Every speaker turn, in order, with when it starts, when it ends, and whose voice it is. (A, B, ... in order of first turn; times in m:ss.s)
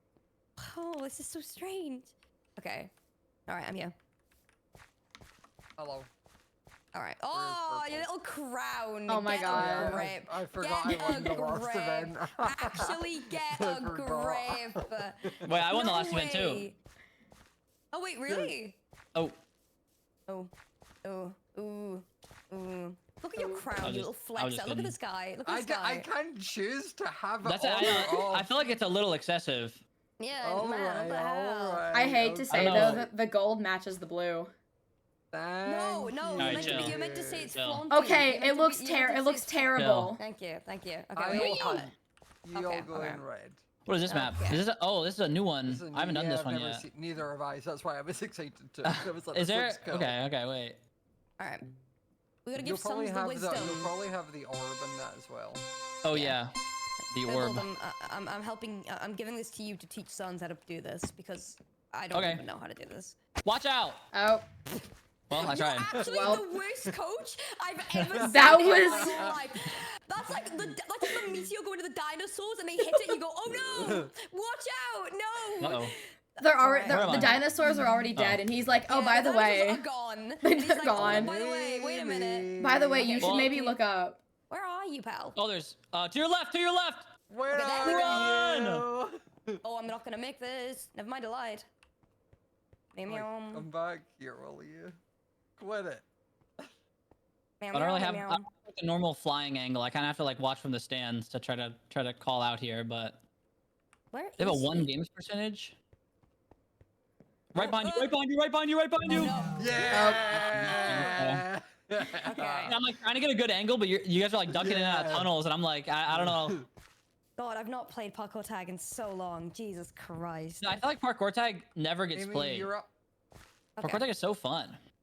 0:00.6-0:02.9 A
0:03.5-0:03.9 A
0:05.8-0:06.1 B
0:06.9-0:16.8 A
0:07.3-0:08.1 B
0:09.1-0:10.1 C
0:09.5-0:16.0 B
0:10.9-0:11.3 C
0:15.4-0:16.7 D
0:17.9-0:18.8 A
0:18.3-0:18.5 B
0:21.0-0:26.1 A
0:23.4-0:23.7 C
0:23.8-0:25.0 D
0:25.4-0:28.5 B
0:27.4-0:29.8 D
0:30.2-0:31.9 A
0:30.4-0:33.1 B
0:31.9-0:34.5 C
0:32.5-0:33.1 D
0:35.3-0:37.5 B
0:35.6-0:41.9 A
0:36.4-0:36.9 D
0:37.5-0:37.8 D
0:37.9-0:40.2 C
0:39.8-0:40.2 D
0:41.2-0:43.6 B
0:41.3-0:41.8 D
0:42.5-0:43.2 A
0:43.9-0:46.8 D
0:44.1-0:44.6 A
0:45.7-0:50.2 B
0:48.8-0:50.8 D
0:51.4-0:51.7 A
0:52.4-0:53.9 A
0:52.6-0:55.6 B
0:56.0-0:56.5 D
0:56.1-0:56.4 A
0:57.1-0:57.7 D
0:57.2-1:03.2 A
1:02.1-1:02.4 D
1:03.4-1:04.1 D
1:04.1-1:04.5 C
1:05.3-1:06.0 D
1:05.4-1:17.4 A
1:05.9-1:06.9 B
1:06.0-1:06.4 C
1:08.1-1:09.5 B
1:08.2-1:09.3 C
1:13.5-1:14.1 B
1:15.6-1:16.0 D
1:16.4-1:19.8 C
1:16.9-1:17.5 D
1:18.1-1:18.4 D
1:18.9-1:23.8 A
1:20.4-1:21.3 C
1:21.0-1:23.2 B
1:22.6-1:24.2 C
1:23.2-1:23.5 D
1:24.5-1:25.4 A
1:25.4-1:27.1 D
1:27.3-1:29.2 B
1:27.5-1:28.3 A
1:27.8-1:28.8 D
1:29.6-1:31.7 A
1:32.9-1:33.7 A
1:33.1-1:35.0 B
1:35.6-1:36.1 B
1:37.6-1:38.5 A
1:37.7-1:43.2 D
1:44.1-1:44.9 A
1:44.4-1:45.8 D
1:47.5-1:49.4 D
1:47.6-1:48.1 A
1:49.1-1:51.1 A
1:49.5-1:52.8 B
1:49.9-1:50.3 C
1:50.3-1:51.4 D
1:52.1-1:52.8 A
1:52.6-1:56.6 D
1:54.5-1:55.3 B
1:56.1-1:56.7 B
1:57.4-2:00.9 A
2:00.6-2:02.7 D
2:02.1-2:02.9 B
2:03.8-2:04.1 A
2:03.8-2:04.8 D